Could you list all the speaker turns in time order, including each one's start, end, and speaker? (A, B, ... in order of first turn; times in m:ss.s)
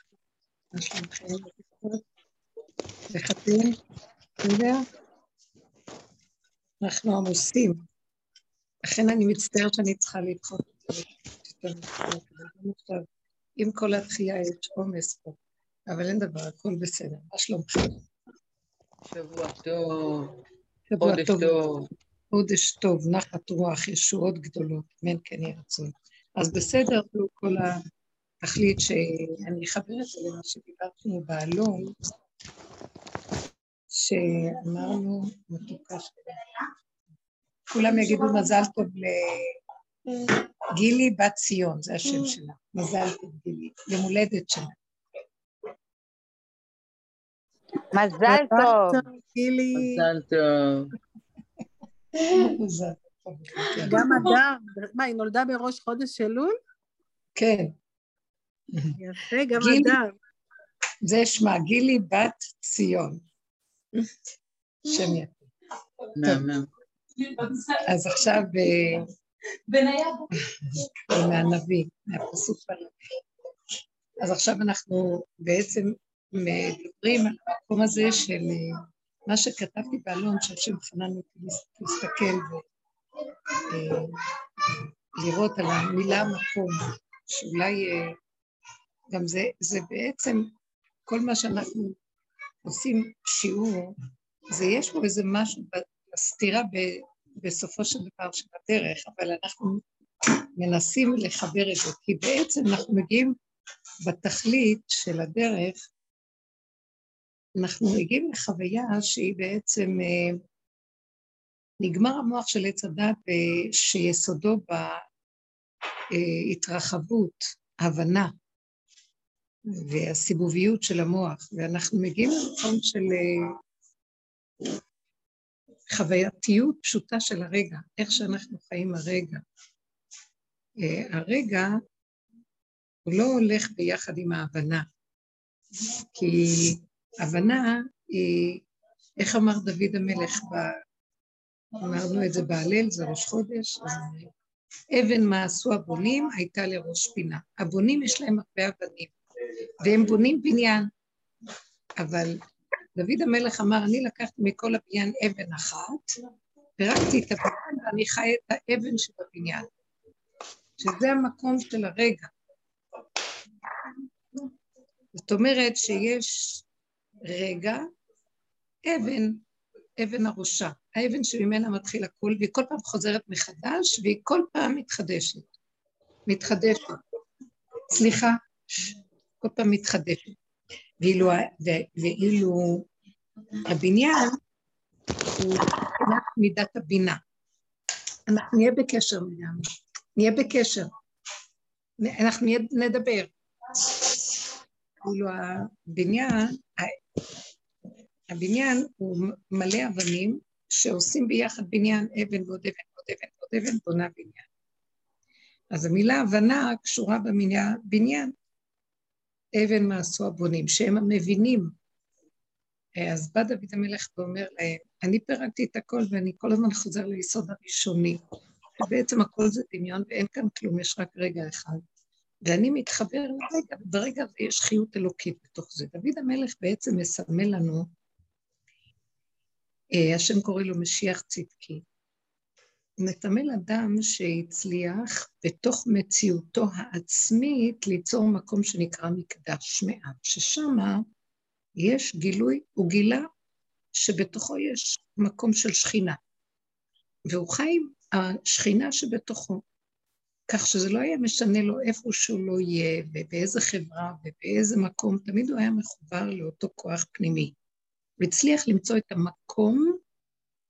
0:00.7-0:02.0 A
0:03.1-0:03.8 A
0:04.4-0:04.8 A
0:06.8-0:07.8 A
0:08.8-0:13.0 A
0:13.6-0:18.0 A
0:19.1-0:20.3 B
0:20.9-0:21.6 A
0:21.0-0:21.9 B
0:22.3-0:27.8 A
0:28.4-0:31.9 A
0:33.9-0:36.4 A
0:37.7-0:39.5 A
0:40.7-0:44.8 A
0:47.9-0:49.0 B
0:48.2-0:50.0 C
0:49.7-0:50.9 B
0:52.2-0:54.3 A
0:53.8-0:56.6 C
0:57.3-0:57.7 A
0:59.0-1:00.1 C
0:59.6-1:00.0 A
1:01.0-1:03.2 A
1:04.8-1:05.5 A
1:06.2-1:06.7 B
1:06.2-1:06.5 A
1:07.8-1:09.0 A
1:10.3-1:12.9 A
1:14.2-1:22.6 A
1:23.7-1:24.2 A
1:24.7-1:28.1 A
1:29.1-1:30.5 A
1:31.0-1:32.0 A
1:32.6-1:34.0 A
1:34.5-1:39.8 A
1:40.6-1:43.3 A
1:44.0-1:45.8 A
1:47.6-1:50.4 A
1:51.8-1:55.0 A
1:56.1-1:58.3 A
1:59.7-2:03.5 A
2:05.9-2:09.4 A
2:10.8-2:11.8 A
2:13.0-2:14.8 A
2:16.0-2:18.6 A
2:19.2-2:20.7 A
2:21.8-2:24.3 A
2:24.9-2:29.1 A
2:29.8-2:30.9 A
2:32.0-2:32.4 A
2:33.0-2:36.0 A
2:36.8-2:39.7 A
2:40.8-2:42.3 A
2:45.1-2:46.6 A
2:47.2-2:47.9 A
2:48.8-2:49.4 A
2:50.0-2:55.5 A
2:56.2-2:57.0 A
2:57.9-3:00.4 A
3:01.0-3:02.9 A
3:03.7-3:04.4 A
3:05.3-3:07.2 A
3:08.3-3:10.9 A
3:12.0-3:14.4 A
3:15.0-3:17.0 A
3:18.3-3:24.5 A
3:25.7-3:28.3 A
3:29.6-3:31.7 A
3:33.0-3:38.2 A
3:38.8-3:41.8 A
3:42.4-3:47.9 A
3:50.0-3:51.8 A
3:53.0-4:01.0 A
4:01.8-4:03.3 A
4:03.9-4:06.2 A
4:07.3-4:09.6 A
4:10.5-4:17.5 A
4:18.2-4:20.0 A